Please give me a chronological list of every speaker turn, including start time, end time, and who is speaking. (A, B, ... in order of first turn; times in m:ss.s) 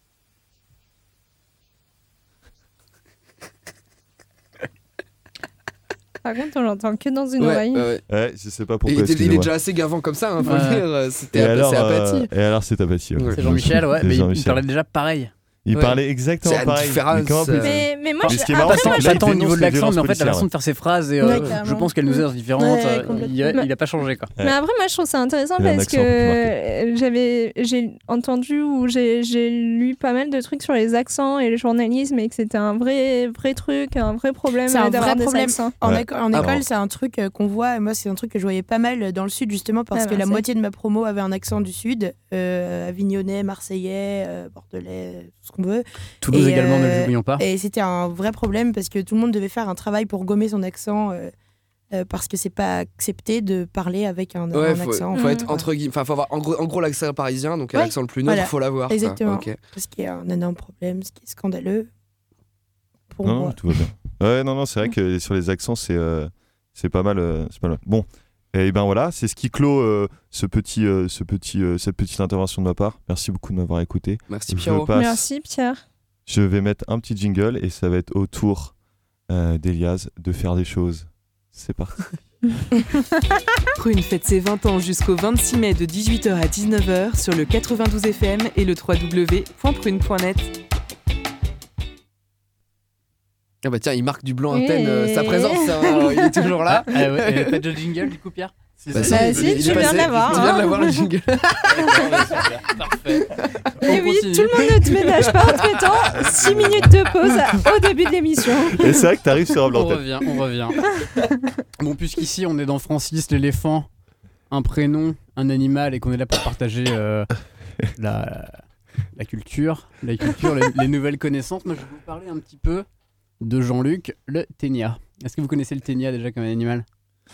0:06.2-0:07.9 A
0:07.4-0:08.0 B
0:08.1-0:09.5 C
0:08.8-0:12.3 B
0:10.4-0:10.8 D
0:11.3-0:14.6 C
0:13.3-0:15.3 D
0:15.6-0:20.5 C
0:15.7-0:17.9 B
0:17.6-0:19.2 A
0:18.3-0:24.3 D
0:21.2-0:21.9 E
0:22.6-0:23.5 E
0:24.4-0:35.7 A
0:25.6-0:26.5 C
0:34.7-0:51.3 E
0:35.8-0:36.6 C
0:36.3-0:36.6 B
0:39.9-0:40.4 A
0:46.2-0:47.4 D
0:51.9-0:55.7 E
0:54.5-0:59.6 B
0:55.1-0:55.5 A
0:57.7-1:01.9 E
1:03.1-1:03.6 E
1:03.2-1:15.3 C
1:14.3-1:14.9 B
1:14.9-1:15.8 A
1:16.2-1:18.7 C
1:19.3-1:22.0 C
1:23.8-1:30.5 F
1:33.6-1:37.6 B
1:34.5-1:36.5 A
1:36.4-1:40.5 D
1:38.9-1:42.3 B
1:39.0-1:41.0 A
1:41.6-1:44.7 D
1:43.8-1:49.0 A
1:46.4-1:46.7 D
1:48.7-1:50.0 C
1:49.7-1:50.8 D
1:51.8-1:53.9 D
1:54.5-1:57.3 D
1:57.9-1:58.6 D
1:59.1-2:02.8 D
2:03.4-2:06.8 D